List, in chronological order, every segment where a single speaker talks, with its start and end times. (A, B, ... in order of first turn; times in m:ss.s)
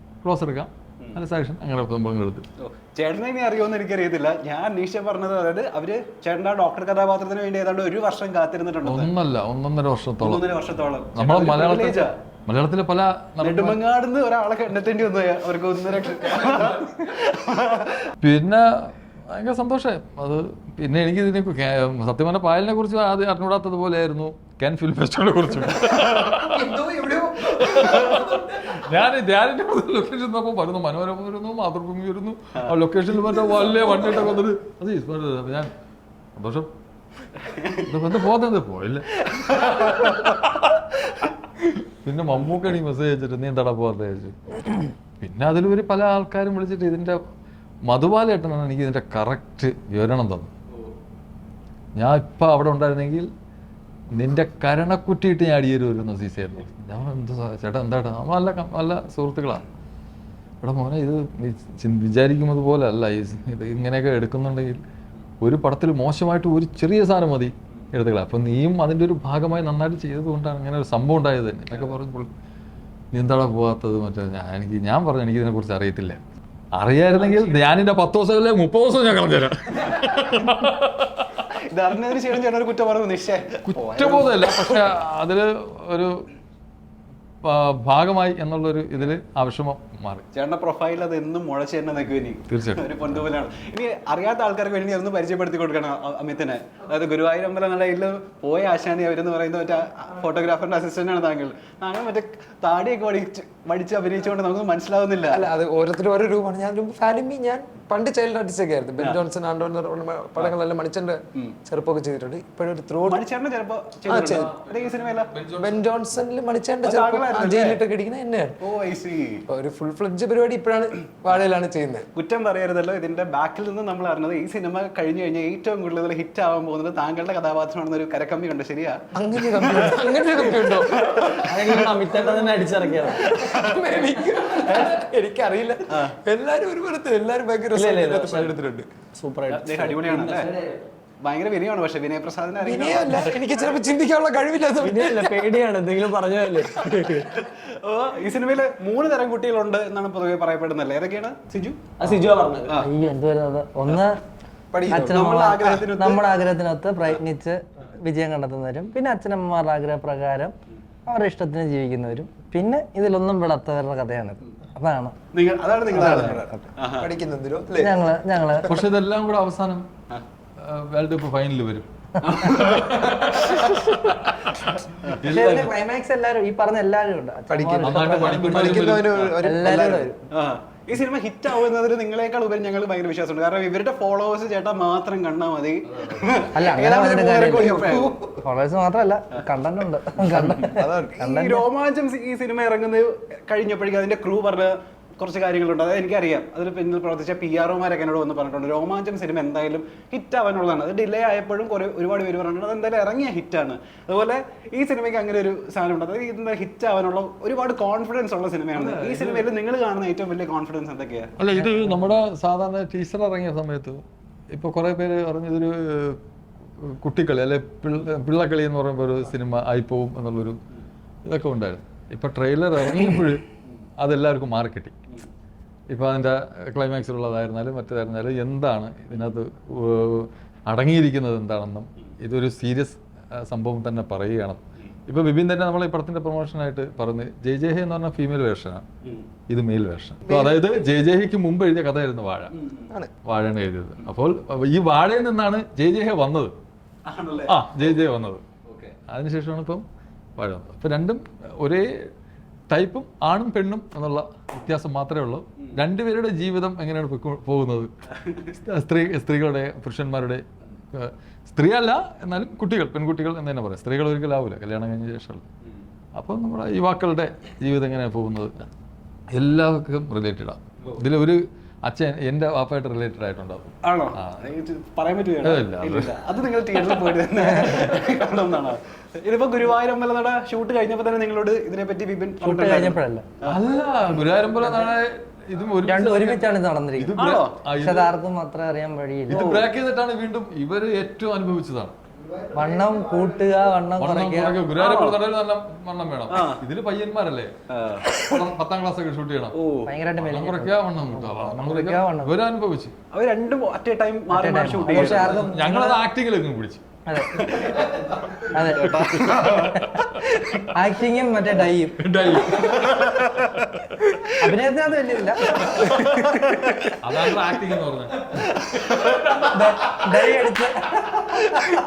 0:00.2-0:02.4 A
0:02.6-0:09.1 B
0:08.8-0:10.5 A
0:10.2-0:12.1 B
0:11.1-0:13.8 A
0:13.4-0:18.1 B
0:18.2-0:26.8 A
0:26.0-0:28.7 C
0:27.4-0:35.7 A
0:36.3-0:36.7 A
0:37.5-0:37.8 B
0:37.8-0:40.7 A
0:39.3-0:39.8 B
0:41.6-0:44.4 A
0:45.2-0:47.2 A
0:47.9-0:50.5 A
0:52.0-0:53.3 A
0:54.1-0:59.6 A
1:00.6-1:04.8 A
1:05.4-1:12.3 A
1:13.1-1:16.2 A
1:16.8-1:21.5 A
1:17.2-1:17.6 B
1:21.5-1:24.5 B
1:23.6-1:26.3 A
1:27.4-1:30.2 A
1:30.3-1:45.4 B
1:32.5-1:33.2 A
1:45.3-1:53.2 C
1:53.0-1:55.3 B
1:54.1-1:54.5 C
1:54.4-1:55.9 A
1:55.6-1:58.6 C
1:56.8-1:57.8 B
1:58.6-1:59.4 B
1:59.5-2:02.0 C
2:02.1-2:11.7 B
2:09.1-2:11.4 C
2:11.5-2:13.3 D
2:13.3-2:13.8 B
2:13.3-2:18.9 C
2:15.9-2:16.1 B
2:17.7-2:18.5 D
2:19.1-2:20.8 D
2:19.5-2:20.5 B
2:21.2-2:23.4 B
2:22.6-2:25.4 C
2:24.8-2:27.4 D
2:27.4-2:32.9 B
2:32.0-2:32.8 D
2:32.8-2:34.2 E
2:34.7-2:35.2 C
2:34.9-2:40.5 E
2:34.9-2:36.2 B
2:41.0-2:45.1 E
2:45.3-2:47.1 B
2:45.9-2:46.7 E
2:47.0-2:48.0 C
2:47.8-2:48.8 E
2:48.6-2:49.9 A
2:50.6-2:51.9 A
2:52.2-2:53.6 B
2:52.4-2:55.7 A
2:55.2-3:00.2 E
2:57.5-3:00.2 C
2:57.8-2:59.4 A
3:00.3-3:08.2 B
3:05.8-3:06.5 A
3:06.5-3:11.6 E
3:06.9-3:08.4 C
3:10.2-3:11.3 C
3:11.2-3:31.3 B
3:28.7-3:29.5 A
3:31.4-3:36.2 A
3:36.8-3:40.6 A
3:41.2-3:43.4 A
3:44.0-3:45.0 A
3:45.9-3:58.8 A
3:59.5-4:02.5 A
4:00.2-4:00.5 C
4:02.5-4:02.9 B
4:03.2-4:06.5 A
4:07.0-4:07.6 B
4:07.5-4:08.4 A
4:08.7-4:08.9 B
4:09.1-4:09.8 A
4:10.4-4:12.1 A
4:12.7-4:17.9 A
4:18.2-4:18.5 B
4:18.4-4:25.4 A
4:26.2-4:28.7 A
4:29.3-4:34.5 A
4:33.8-4:43.6 B
4:35.4-4:36.1 A
4:37.4-4:37.8 E
4:42.4-4:43.2 E
4:43.4-4:48.2 A
4:45.8-4:47.2 E
4:47.2-4:47.6 B
4:47.8-4:49.7 E
4:49.3-4:51.9 A
4:52.2-4:53.8 C
4:52.5-4:54.6 E
4:54.0-4:57.5 A
4:54.8-4:55.2 B
4:56.3-4:56.6 B
4:57.7-4:58.2 B
4:58.1-4:59.6 A
4:59.5-4:59.9 B
4:59.9-5:02.3 E
5:00.2-5:02.9 A
5:03.1-5:05.4 B
5:04.3-5:06.0 E
5:04.8-5:06.8 A
5:07.1-5:07.5 E
5:07.4-5:10.7 B
5:08.5-5:09.8 E
5:08.7-5:10.4 A
5:10.7-5:12.0 E
5:12.0-5:14.1 A
5:12.5-5:13.5 B
5:14.4-5:15.6 E
5:15.4-5:20.1 A
5:15.9-5:16.9 B
5:18.6-5:19.5 B
5:19.5-5:21.7 E